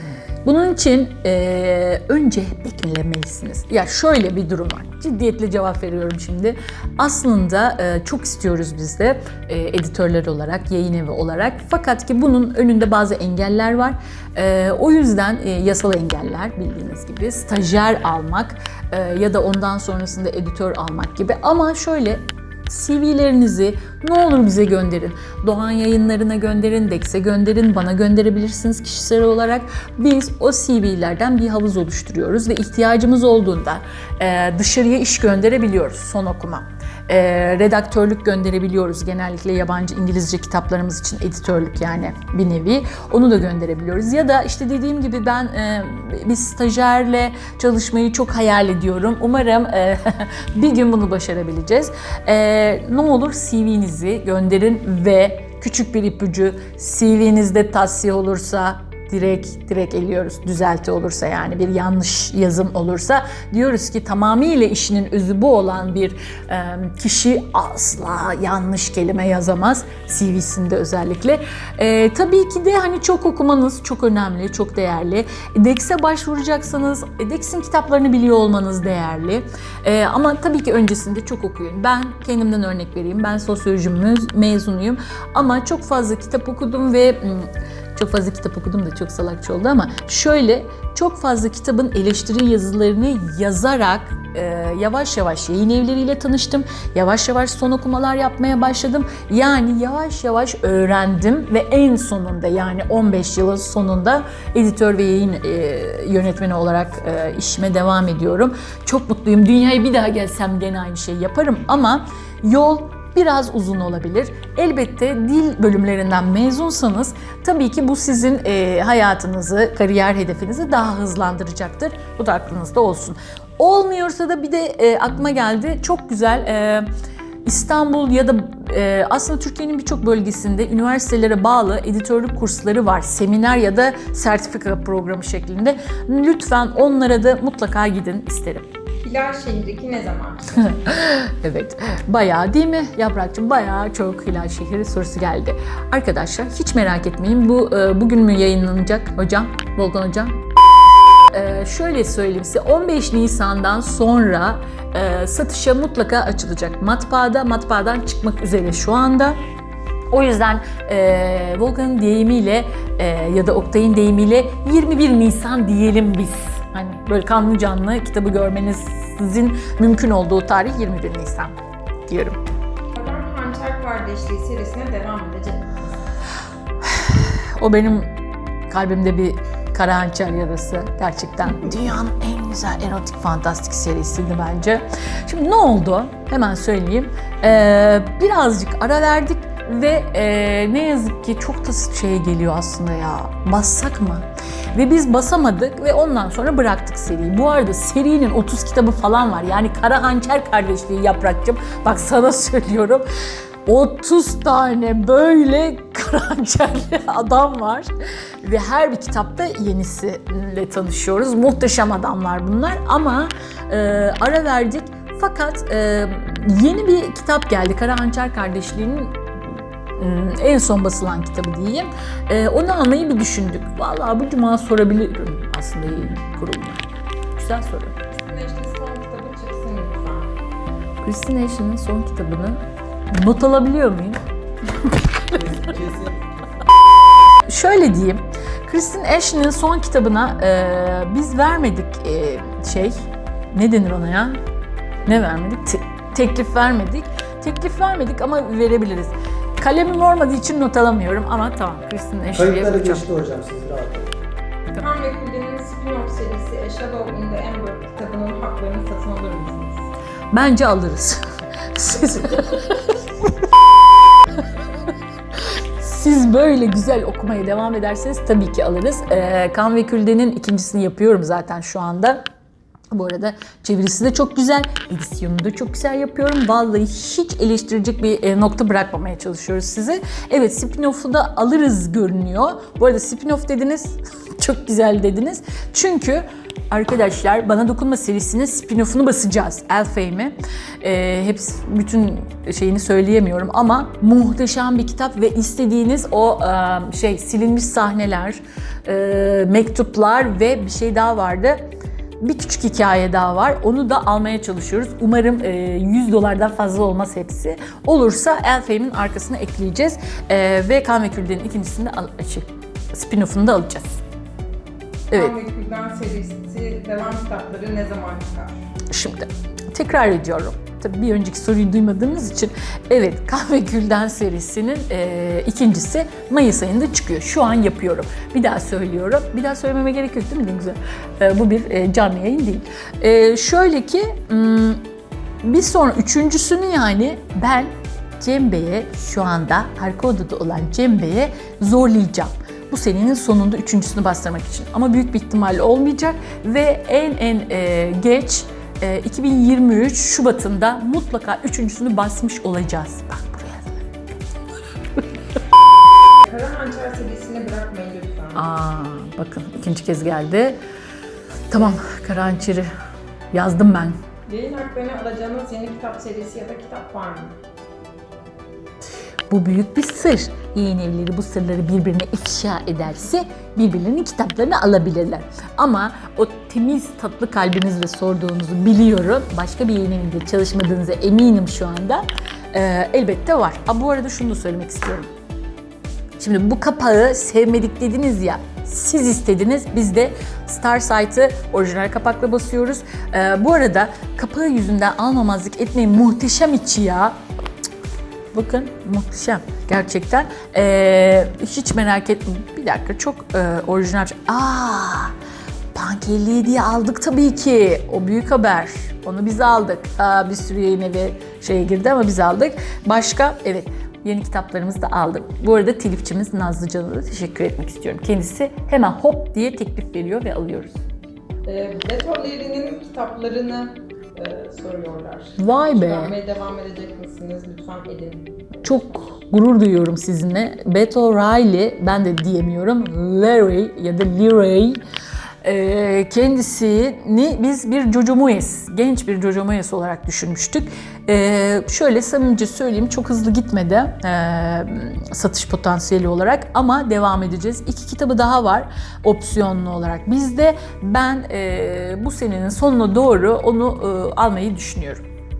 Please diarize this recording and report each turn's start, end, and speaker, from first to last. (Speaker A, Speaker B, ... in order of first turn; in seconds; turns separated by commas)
Speaker A: 0.4-126.9, Speaker A: 127.5-138.7, Speaker B: 139.0-140.6, Speaker A: 140.6-150.4, Speaker A: 151.3-159.4, Speaker A: 160.1-171.6, Speaker A: 172.1-172.4, Speaker B: 172.9-176.1, Speaker A: 176.9-178.1, Speaker A: 178.7-203.1, Speaker A: 203.7-207.9, Speaker A: 208.4-219.2, Speaker A: 220.0-226.8, Speaker A: 227.3-228.0, Speaker B: 228.2-230.3, Speaker A: 231.0-234.2, Speaker A: 234.9-235.4, Speaker C: 235.3-236.3, Speaker A: 237.5-242.9, Speaker A: 243.5-244.4, Speaker A: 245.1-253.1, Speaker C: 252.3-254.1, Speaker B: 254.8-259.9, Speaker A: 260.3-263.3, Speaker A: 265.8-272.2, Speaker A: 272.9-301.6, Speaker A: 302.2-314.0, Speaker B: 315.1-318.6, Speaker A: 318.9-334.8, Speaker A: 335.4-353.9, Speaker B: 356.2-358.4, Speaker A: 358.4-360.6, Speaker A: 361.5-362.7, Speaker A: 363.3-364.0, Speaker B: 364.3-367.4, Speaker A: 369.3-385.1, Speaker A: 386.2-397.1, Speaker A: 398.3-405.1, Speaker A: 405.7-420.8, Speaker B: 421.5-428.5, Speaker A: 425.4-426.1, Speaker A: 428.6-434.8, Speaker A: 435.4-455.0